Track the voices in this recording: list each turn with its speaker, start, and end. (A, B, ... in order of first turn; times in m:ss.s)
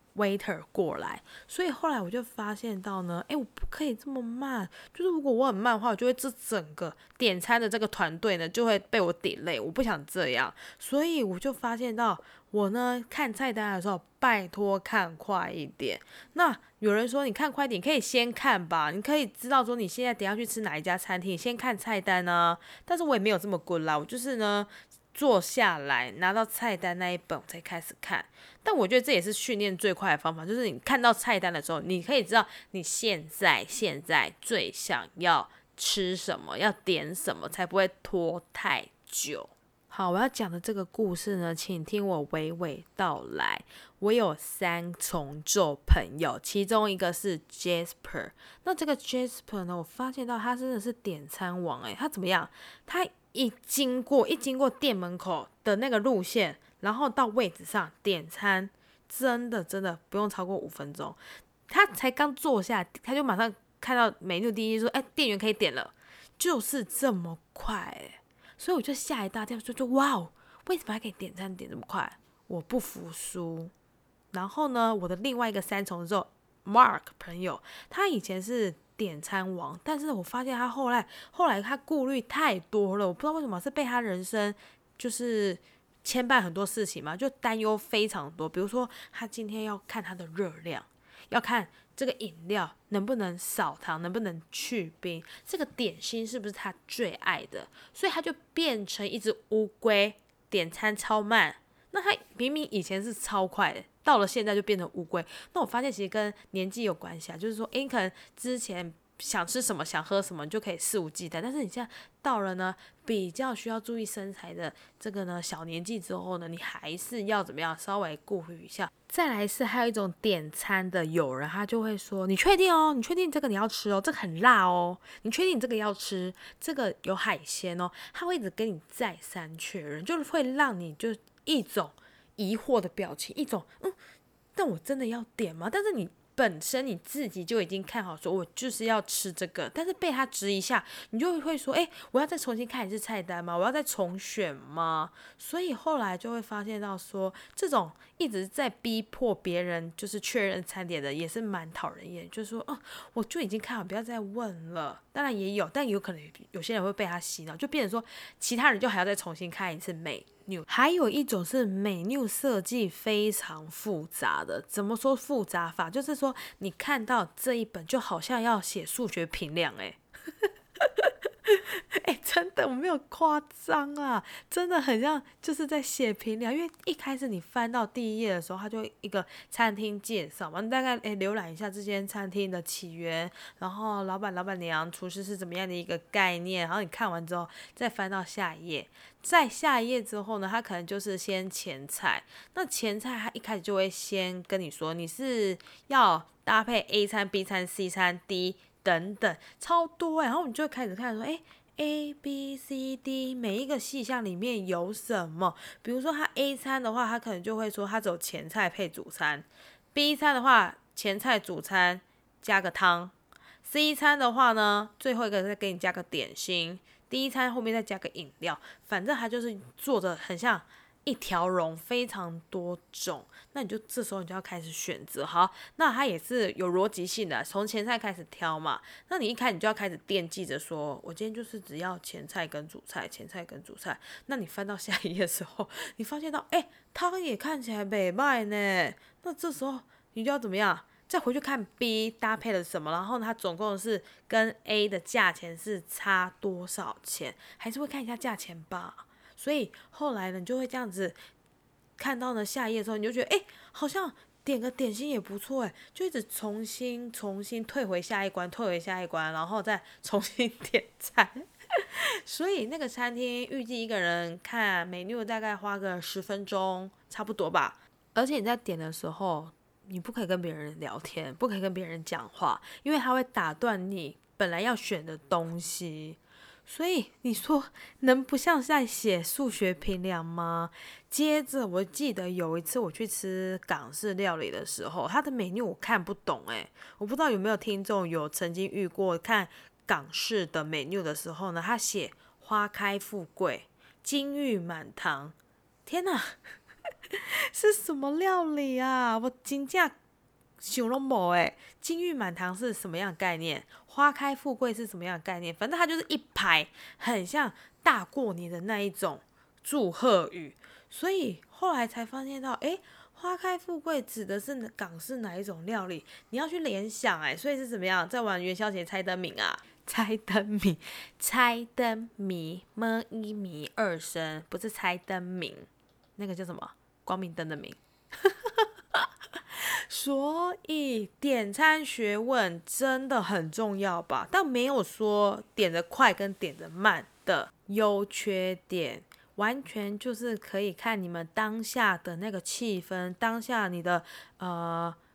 0:00.1-1:13.7 A
1:14.3-2:14.0 A
2:14.6-2:50.0 A
2:50.8-4:11.2 A
4:12.0-4:55.3 A
4:55.8-4:56.4 A
4:57.1-4:59.9 A
5:00.6-5:45.0 A